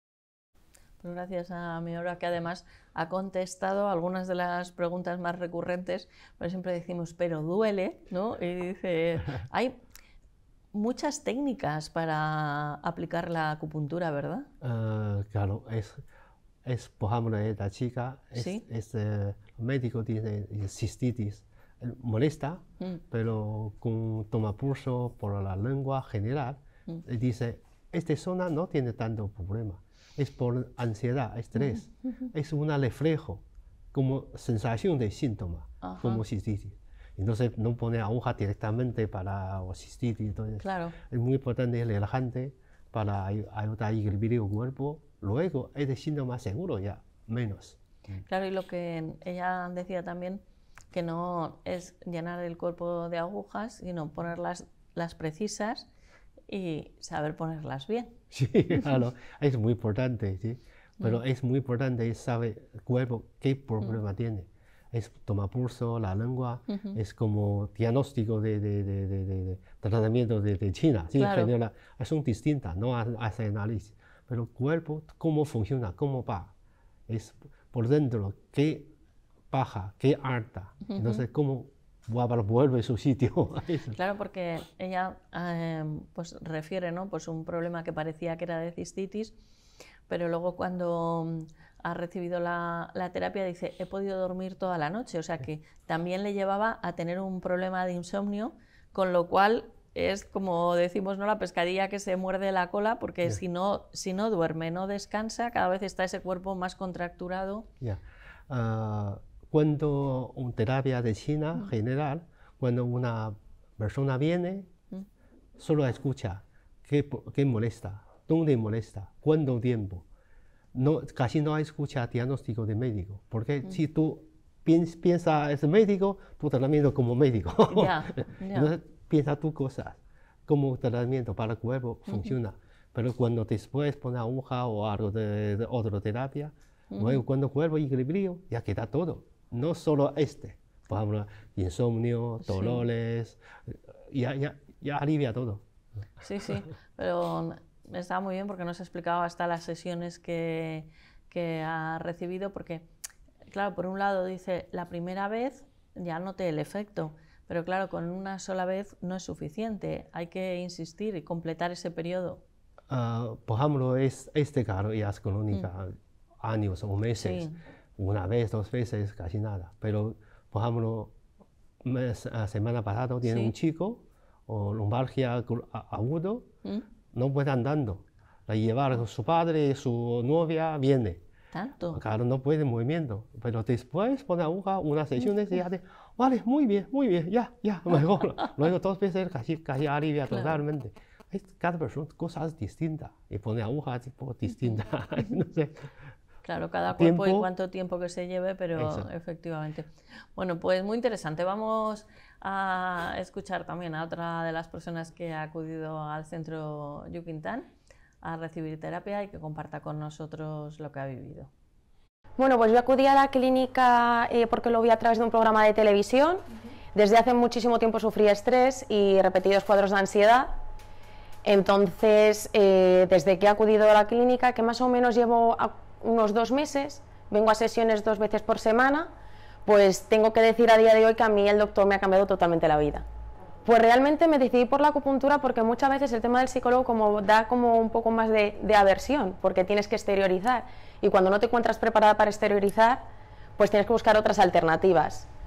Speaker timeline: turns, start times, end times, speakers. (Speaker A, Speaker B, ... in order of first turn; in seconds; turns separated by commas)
Speaker A: 1.0-9.8, Speaker A: 10.7-14.5, Speaker B: 14.6-16.0, Speaker B: 16.6-33.4, Speaker A: 18.4-18.6, Speaker B: 33.9-48.2, Speaker A: 35.8-36.2, Speaker A: 40.6-41.0, Speaker A: 48.3-50.4, Speaker A: 50.9-55.9, Speaker A: 56.5-58.2, Speaker B: 58.3-76.5, Speaker A: 66.7-67.0, Speaker A: 71.2-71.5, Speaker B: 77.1-78.9, Speaker B: 79.5-84.0, Speaker A: 80.9-81.2, Speaker A: 83.9-89.3, Speaker A: 90.1-107.7, Speaker B: 107.8-114.7, Speaker B: 115.6-120.0, Speaker B: 120.7-145.6, Speaker A: 127.7-128.7, Speaker A: 136.9-137.2, Speaker A: 142.4-142.8, Speaker A: 146.2-152.9, Speaker A: 153.5-162.4, Speaker B: 162.9-171.2, Speaker A: 167.2-167.6, Speaker B: 171.8-176.5, Speaker A: 173.2-173.5, Speaker B: 177.1-181.2, Speaker A: 181.5-182.0, Speaker B: 181.9-195.9, Speaker A: 190.3-190.6, Speaker A: 196.4-207.7, Speaker B: 197.0-197.5, Speaker B: 198.8-199.1, Speaker A: 208.2-211.5, Speaker C: 212.4-220.6, Speaker C: 221.4-229.1, Speaker C: 229.7-233.1, Speaker C: 233.7-243.1, Speaker C: 243.6-245.3